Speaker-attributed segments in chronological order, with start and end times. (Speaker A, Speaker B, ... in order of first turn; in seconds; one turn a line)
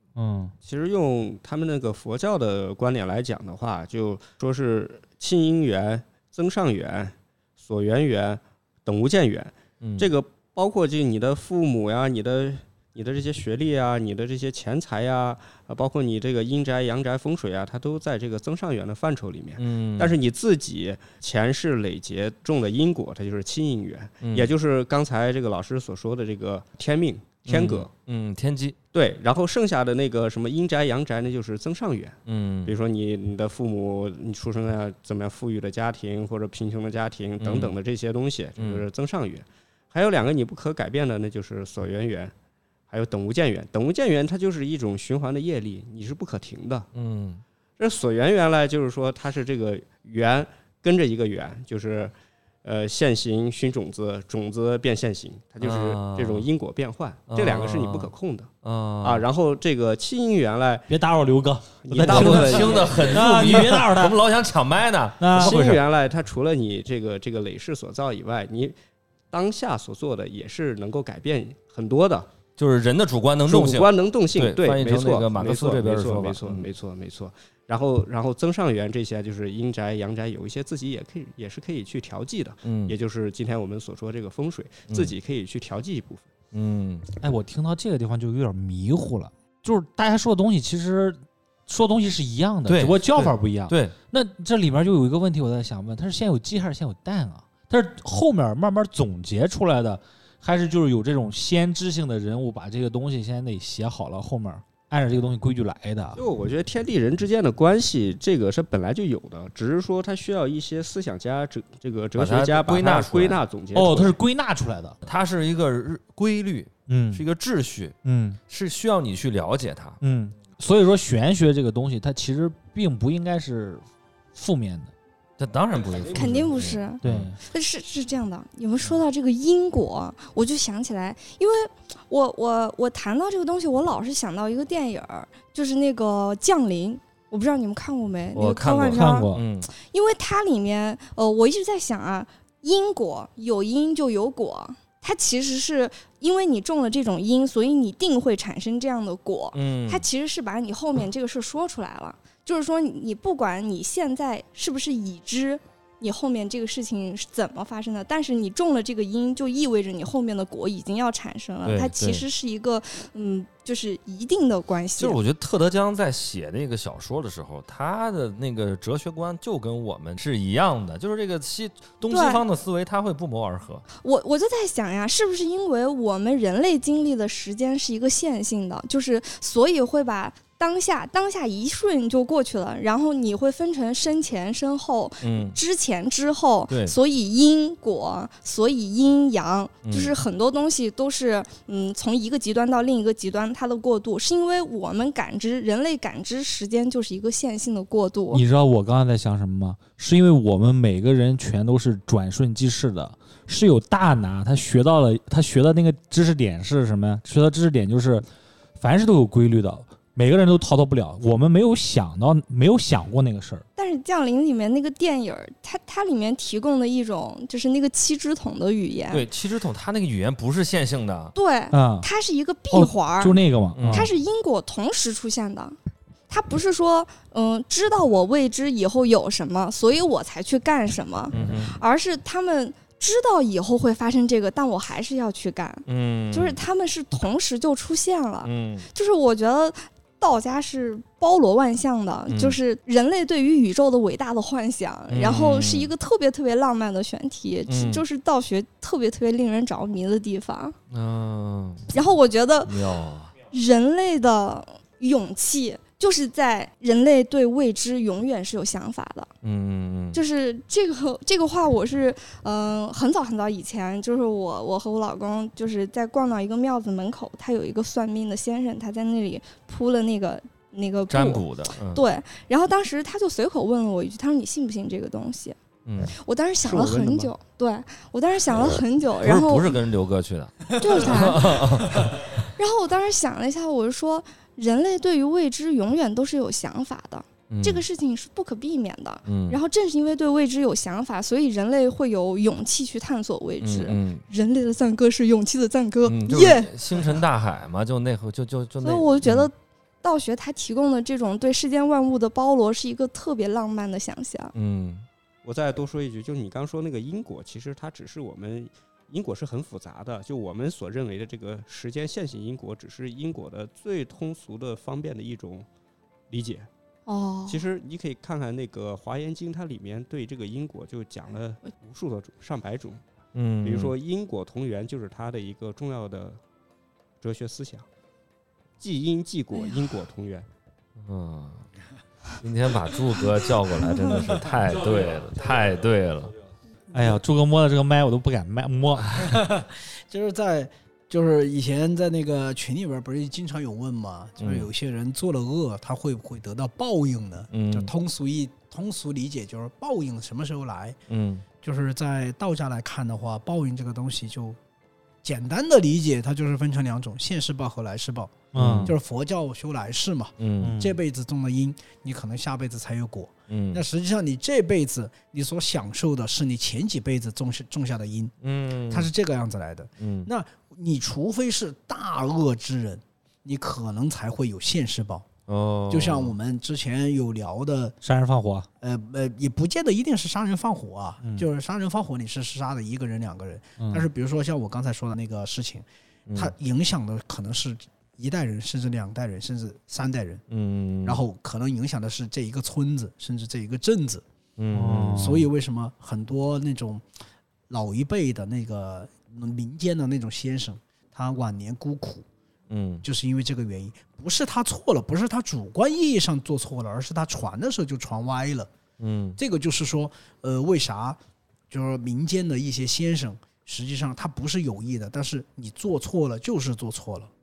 Speaker A: 0.2-0.5
Speaker B: 0.6-27.9
Speaker C: 9.8-10.1
Speaker C: 19.6-20.1
Speaker C: 24.2-24.5
Speaker C: 27.5-28.8
Speaker B: 28.9-42.3
Speaker C: 32.3-32.7
Speaker C: 37.4-37.7
Speaker C: 38.6-38.9
Speaker B: 42.9-46.9
Speaker C: 46.9-47.4
Speaker B: 47.8-52.1
Speaker B: 52.6-58.5
Speaker C: 55.6-56.5
Speaker C: 57.3-58.1
Speaker C: 58.6-59.3
Speaker B: 59.0-60.9
Speaker A: 60.9-64.2
Speaker B: 61.8-63.6
Speaker C: 62.0-65.8
Speaker A: 65.2-65.8
Speaker B: 65.3-68.8
Speaker B: 69.3-72.3
Speaker C: 72.6-76.7
Speaker B: 73.5-86.3
Speaker C: 82.6-83.0
Speaker C: 84.9-85.1
Speaker C: 86.5-87.1
Speaker A: 87.2-106.2
Speaker C: 92.7-94.0
Speaker B: 106.2-114.2
Speaker C: 112.2-113.4
Speaker A: 113.7-115.0
Speaker C: 115.0-118.0
Speaker A: 116.9-117.2
Speaker A: 118.0-118.4
Speaker C: 118.5-120.0
Speaker A: 120.0-123.8
Speaker A: 124.3-124.9
Speaker C: 125.4-127.3
Speaker D: 126.1-165.2
Speaker A: 127.0-127.4
Speaker C: 138.3-139.7
Speaker A: 138.9-139.4
Speaker C: 149.5-150.1
Speaker C: 161.7-162.2
Speaker C: 165.0-173.8
Speaker D: 172.1-172.4
Speaker D: 174.0-198.4
Speaker C: 185.2-185.6
Speaker C: 186.7-186.9
Speaker C: 189.8-190.2
Speaker A: 198.3-208.2
Speaker A: 208.8-213.7
Speaker D: 213.8-219.2
Speaker C: 219.1-221.3
Speaker D: 221.3-225.8
Speaker A: 221.7-222.1
Speaker A: 222.7-224.1
Speaker C: 223.8-224.1
Speaker D: 226.3-250.8
Speaker C: 231.3-231.7
Speaker C: 235.9-236.6
Speaker C: 238.4-238.9
Speaker C: 242.3-242.6
Speaker C: 245.1-245.9
Speaker C: 247.7-248.0
Speaker C: 250.9-251.9
Speaker D: 251.9-252.9
Speaker C: 252.7-253.3
Speaker D: 253.5-259.3
Speaker C: 259.4-260.2
Speaker D: 260.1-275.6
Speaker C: 271.1-272.0
Speaker C: 275.9-276.1
Speaker D: 276.1-279.8
Speaker B: 276.6-277.3
Speaker C: 279.2-282.2
Speaker D: 280.8-297.2
Speaker C: 287.5-287.8
Speaker C: 289.3-289.6
Speaker C: 293.6-294.2
Speaker C: 296.1-299.5
Speaker D: 298.8-304.5
Speaker C: 304.6-305.1
Speaker B: 305.4-315.7
Speaker B: 316.3-316.7
Speaker D: 317.1-317.7
Speaker B: 317.5-323.0
Speaker C: 323.3-323.9
Speaker B: 323.6-326.4
Speaker B: 327.2-327.9
Speaker B: 328.8-330.5
Speaker C: 331.0-331.7
Speaker C: 332.4-336.3
Speaker A: 336.9-339.6
Speaker E: 339.3-351.0
Speaker C: 344.4-344.7
Speaker C: 347.5-347.9
Speaker C: 351.1-351.4
Speaker E: 351.6-354.6
Speaker E: 355.2-368.4
Speaker A: 358.5-358.9
Speaker C: 358.6-358.9
Speaker C: 360.4-360.8
Speaker A: 360.6-361.0
Speaker C: 363.5-363.8
Speaker C: 368.4-369.1
Speaker E: 368.9-375.3
Speaker C: 370.0-370.3
Speaker C: 375.5-376.4
Speaker E: 375.9-378.0
Speaker A: 378.0-378.7
Speaker E: 378.8-390.4
Speaker A: 383.8-384.1
Speaker C: 386.3-386.5
Speaker C: 390.5-391.2
Speaker E: 391.0-394.2
Speaker C: 394.6-395.4
Speaker A: 394.7-395.5
Speaker E: 395.2-397.0
Speaker E: 397.7-402.3
Speaker C: 402.7-403.0
Speaker E: 403.0-408.7
Speaker C: 409.0-409.4
Speaker E: 409.4-411.2
Speaker E: 411.7-417.3